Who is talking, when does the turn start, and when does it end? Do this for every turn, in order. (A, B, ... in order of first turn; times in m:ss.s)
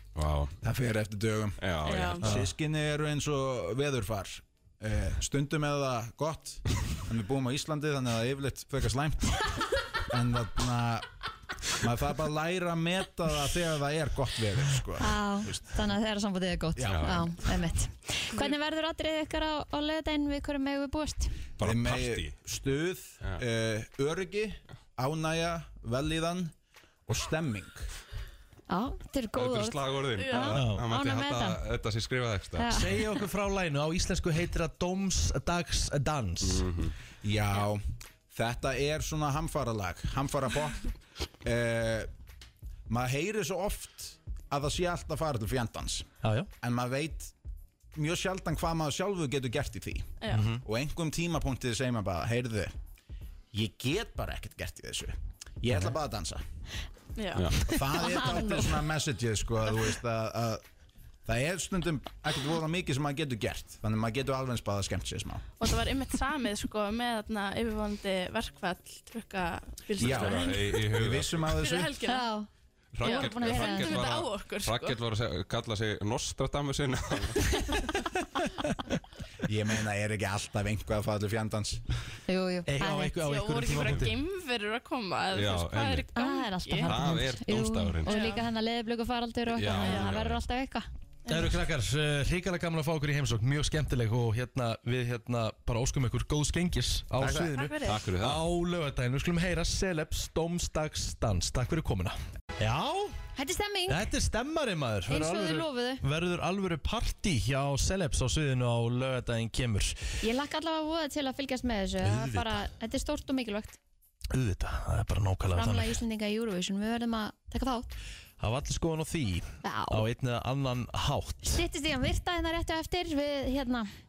0:00.2-0:00.5 A
0:00.6-0:01.7 B
0:01.6-0:02.3 A
0:01.9-0:02.3 C
0:02.2-0:02.5 D
0:02.2-0:09.5 B
0:10.0-0:11.1 B
0:11.8-0:15.7 B
0:15.0-0:21.3 E
0:16.8-0:17.3 B
0:16.8-0:17.3 A
0:21.6-0:26.5 B
0:21.6-0:22.4 A
0:27.1-0:27.9 B
0:28.7-0:31.6 E
0:29.4-0:32.8 A
0:30.2-0:30.5 C
0:30.6-0:30.8 D
0:32.6-0:33.1 E
0:32.7-0:36.6 D
0:36.4-0:36.9 A
0:37.2-0:40.9 B
0:41.4-0:42.1 B
0:42.9-0:46.1 B
0:46.2-0:46.5 D
0:46.6-0:47.3 B
0:47.9-0:52.7 B
0:50.2-0:50.4 C
0:50.3-0:50.6 D
0:53.5-0:56.4 B
0:55.7-0:55.9 D
0:57.2-0:57.5 C
0:57.4-0:57.6 A
0:57.6-1:00.6 B
0:58.0-0:58.7 E
1:01.3-1:05.4 B
1:05.6-1:10.7 C
1:10.0-1:11.5 A
1:10.0-1:11.9 B
1:11.6-1:12.3 C
1:12.1-1:12.5 E
1:12.9-1:17.6 A
1:13.0-1:15.0 C
1:13.0-1:14.0 E
1:19.4-1:21.8 B
1:22.3-1:23.1 E
1:22.6-1:24.1 D
1:23.2-1:27.0 C
1:25.3-1:26.1 A
1:26.1-1:30.8 E
1:26.8-1:28.1 A
1:28.0-1:28.4 C
1:29.5-1:30.4 A
1:29.7-1:30.2 C
1:31.3-1:31.5 C
1:31.3-1:43.2 D
1:37.2-1:37.6 B
1:37.5-1:38.0 C
1:37.8-1:38.4 A
1:43.4-1:44.1 E
1:43.9-1:50.0 D
1:45.1-1:46.0 E
1:50.2-1:53.8 E
1:52.0-1:52.7 D
1:54.3-1:56.0 D
1:55.5-1:57.9 E
1:58.4-2:01.6 D
1:59.6-2:00.1 E
2:01.4-2:03.9 E